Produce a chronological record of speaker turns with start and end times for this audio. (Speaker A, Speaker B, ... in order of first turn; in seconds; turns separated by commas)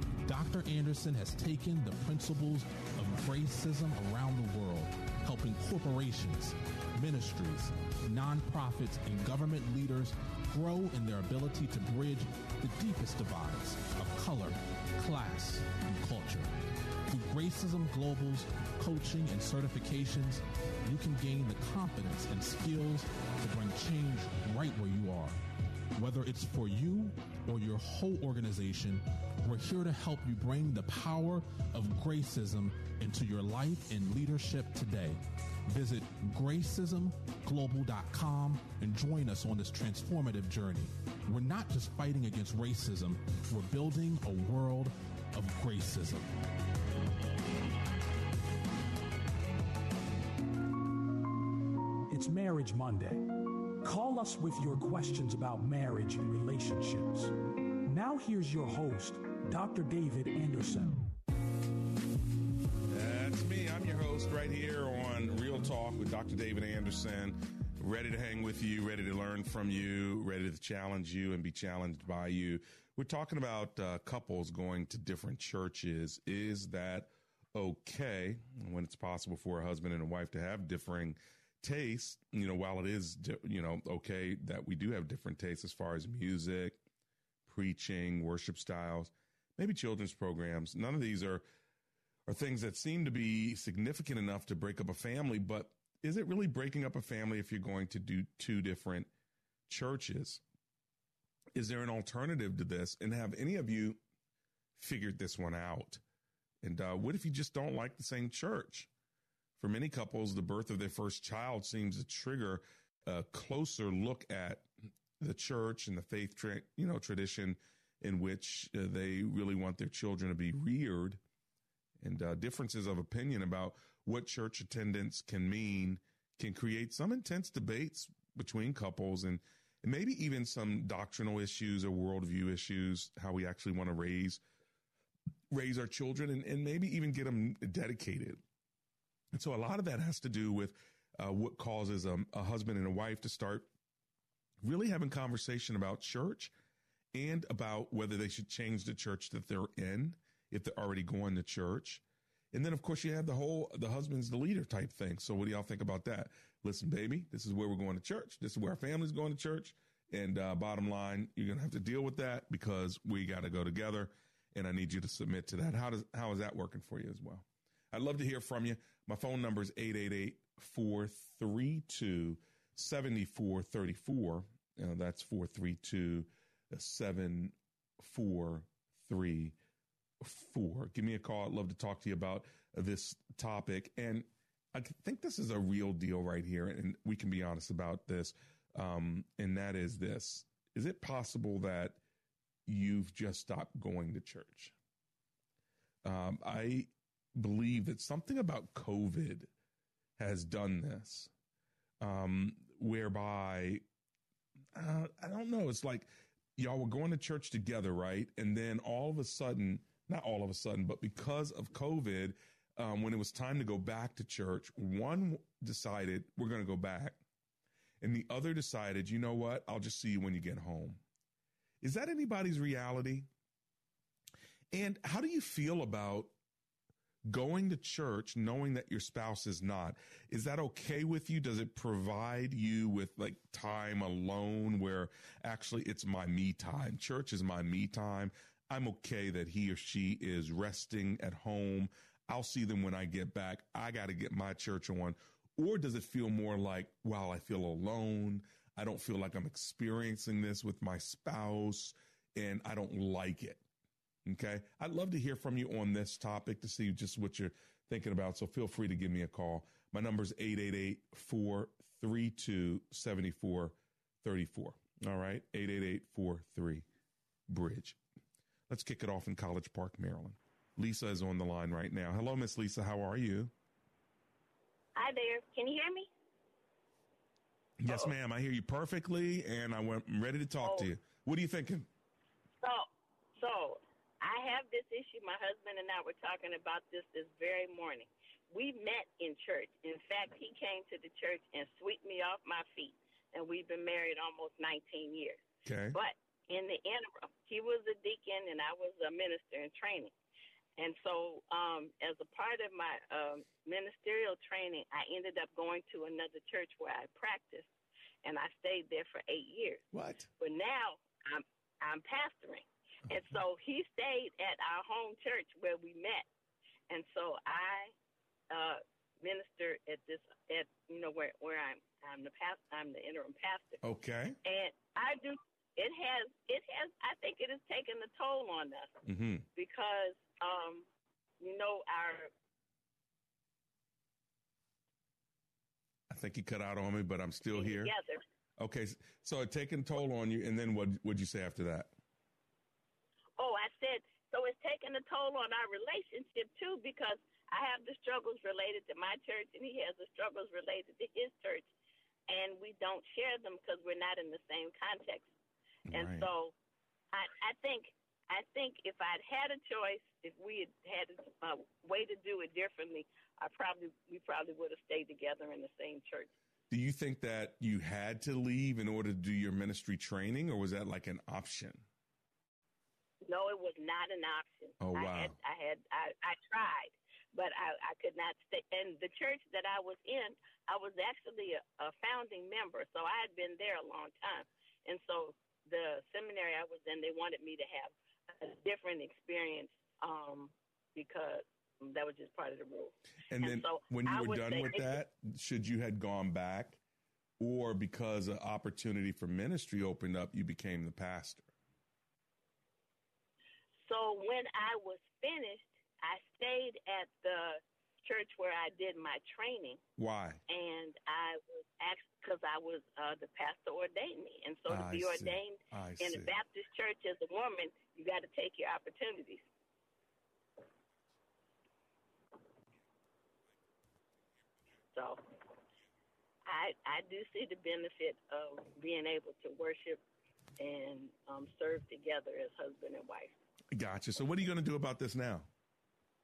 Speaker A: 0.2-16.5, Speaker A: 17.1-25.4, Speaker A: 26.0-46.3, Speaker B: 52.1-61.1, Speaker C: 62.9-86.8, Speaker C: 87.5-91.4, Speaker C: 92.3-99.1, Speaker C: 99.7-100.4, Speaker C: 101.5-104.0, Speaker C: 104.8-106.0, Speaker C: 106.6-108.9, Speaker C: 109.6-114.7, Speaker C: 115.2-121.2, Speaker C: 122.0-134.4, Speaker C: 135.5-138.4, Speaker C: 139.3-143.7, Speaker C: 144.6-146.5, Speaker C: 147.1-179.6, Speaker C: 180.2-192.0, Speaker C: 192.7-194.8, Speaker C: 196.0-199.5, Speaker C: 200.2-201.3, Speaker C: 202.0-203.8, Speaker C: 204.7-217.2, Speaker C: 218.0-221.0, Speaker C: 221.8-223.3, Speaker C: 224.7-226.3, Speaker C: 227.3-253.6, Speaker C: 254.2-266.9, Speaker C: 267.5-268.0, Speaker C: 268.7-273.5, Speaker D: 275.0-276.1, Speaker C: 277.8-281.9, Speaker D: 280.6-280.9, Speaker D: 282.6-295.4, Speaker C: 295.6-296.0, Speaker D: 295.9-300.1, Speaker D: 300.8-307.7, Speaker D: 308.2-309.8, Speaker C: 309.9-310.3, Speaker D: 310.4-316.2, Speaker D: 316.9-317.9, Speaker D: 318.5-323.8, Speaker C: 323.8-324.4, Speaker D: 324.4-328.9, Speaker C: 329.1-329.4, Speaker D: 329.6-330.9, Speaker D: 331.4-332.3, Speaker C: 336.1-337.9, Speaker D: 337.5-338.2, Speaker C: 338.6-341.9, Speaker D: 343.4-351.7, Speaker D: 352.3-355.3, Speaker C: 355.9-356.3, Speaker D: 355.9-356.5, Speaker D: 357.1-366.3, Speaker C: 366.7-371.8, Speaker D: 373.2-395.0, Speaker C: 374.8-375.4, Speaker C: 393.3-396.8, Speaker C: 397.4-401.5, Speaker D: 403.9-409.8, Speaker C: 410.0-410.4, Speaker D: 410.5-419.4, Speaker C: 414.7-416.3, Speaker D: 424.9-425.2, Speaker D: 426.5-430.0, Speaker D: 430.6-433.3, Speaker C: 433.7-435.5